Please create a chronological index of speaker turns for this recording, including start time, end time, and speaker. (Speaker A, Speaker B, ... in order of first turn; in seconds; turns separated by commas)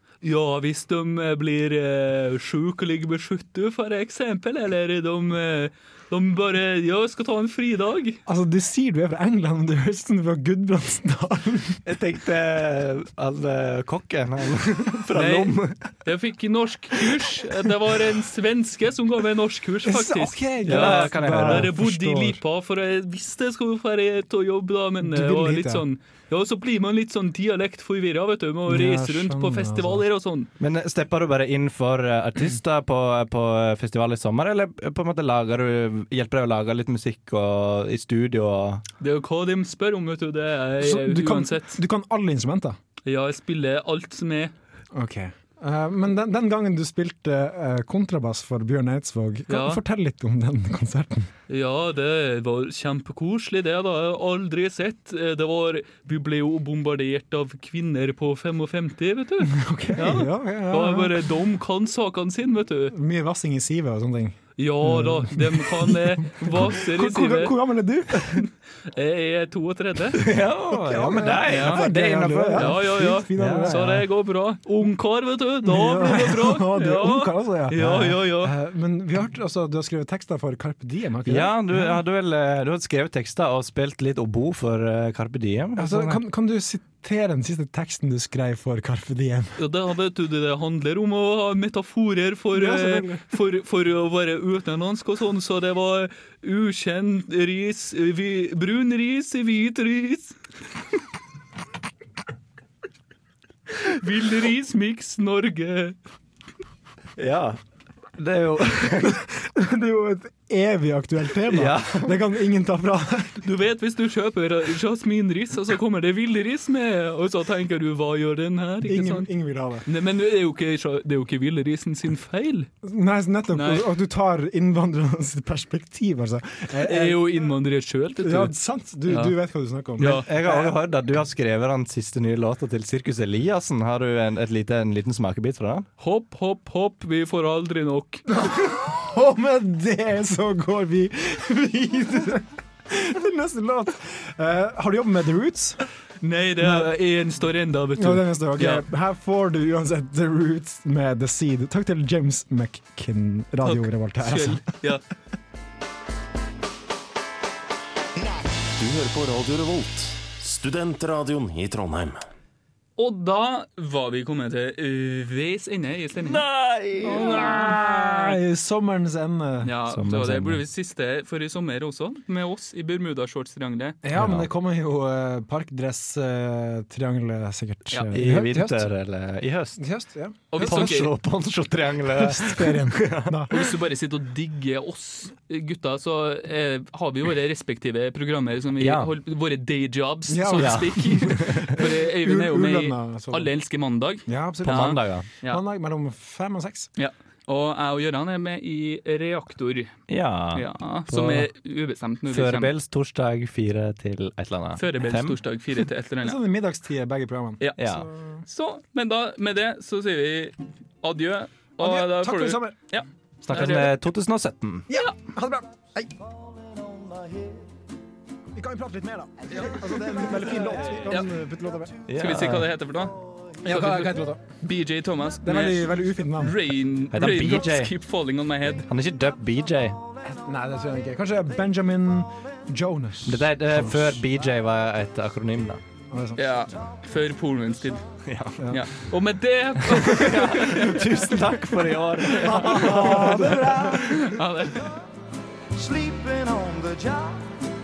Speaker A: 0.2-8.2, Speaker B: 8.3-11.8, Speaker C: 11.9-15.9, Speaker A: 15.1-30.5, Speaker B: 19.8-22.4, Speaker C: 20.6-21.8, Speaker B: 25.0-25.9, Speaker B: 28.7-30.1, Speaker C: 30.6-38.8, Speaker A: 39.0-41.8, Speaker B: 40.8-42.8, Speaker A: 43.1-44.5, Speaker B: 44.9-51.3, Speaker A: 49.5-49.8, Speaker A: 51.5-63.0, Speaker B: 59.5-61.2, Speaker B: 62.9-68.5, Speaker A: 64.6-67.6, Speaker A: 68.2-70.2, Speaker C: 70.2-74.0, Speaker B: 70.7-74.1, Speaker A: 71.5-71.8, Speaker A: 72.5-78.5, Speaker B: 75.6-82.0, Speaker C: 81.2-86.2, Speaker B: 85.8-89.6, Speaker A: 89.6-100.4, Speaker B: 92.5-93.2, Speaker A: 103.8-106.0, Speaker C: 107.2-107.6, Speaker C: 108.2-109.2, Speaker B: 108.8-113.4, Speaker C: 111.5-112.2, Speaker A: 113.4-119.3, Speaker B: 118.8-119.9, Speaker A: 119.9-122.7, Speaker B: 122.8-127.5, Speaker A: 123.5-123.8, Speaker A: 126.8-128.6, Speaker B: 128.2-130.7, Speaker A: 129.1-129.3, Speaker A: 130.0-130.3, Speaker C: 130.0-135.9, Speaker A: 136.0-138.2, Speaker B: 138.3-145.8, Speaker A: 146.2-148.8, Speaker B: 146.6-146.9, Speaker B: 148.0-154.7, Speaker A: 153.6-155.0, Speaker D: 158.8-162.2, Speaker A: 163.0-166.5, Speaker C: 166.2-167.8, Speaker A: 167.0-168.4, Speaker B: 167.0-169.7, Speaker A: 169.6-174.0, Speaker C: 169.9-170.6, Speaker B: 174.0-178.9, Speaker C: 174.2-174.5, Speaker C: 178.1-179.8, Speaker B: 179.8-181.1, Speaker A: 180.5-181.1, Speaker C: 180.6-183.6, Speaker B: 182.1-183.6, Speaker A: 183.5-195.6, Speaker C: 188.8-189.1, Speaker B: 190.3-193.5, Speaker C: 190.6-191.8, Speaker B: 194.3-196.9, Speaker C: 194.6-195.3, Speaker A: 197.0-199.9, Speaker C: 200.1-201.5, Speaker A: 200.5-202.7, Speaker C: 202.3-205.4, Speaker A: 204.8-206.4, Speaker B: 206.2-208.4, Speaker C: 207.8-208.1, Speaker A: 208.5-213.9, Speaker B: 211.8-212.8, Speaker C: 213.4-214.9, Speaker B: 214.9-216.1, Speaker E: 216.5-217.7, Speaker B: 218.6-222.0, Speaker A: 221.0-221.3, Speaker C: 222.1-222.7, Speaker A: 222.1-228.9, Speaker B: 223.7-224.4, Speaker B: 225.4-226.6, Speaker C: 227.1-227.9, Speaker C: 228.9-230.0, Speaker B: 230.2-234.2, Speaker C: 233.2-235.8, Speaker B: 236.1-236.4, Speaker A: 236.4-238.0, Speaker C: 238.2-238.8, Speaker A: 238.7-241.1, Speaker C: 239.8-244.3, Speaker B: 240.9-241.6, Speaker A: 242.2-244.9, Speaker B: 242.3-244.4, Speaker E: 245.8-247.6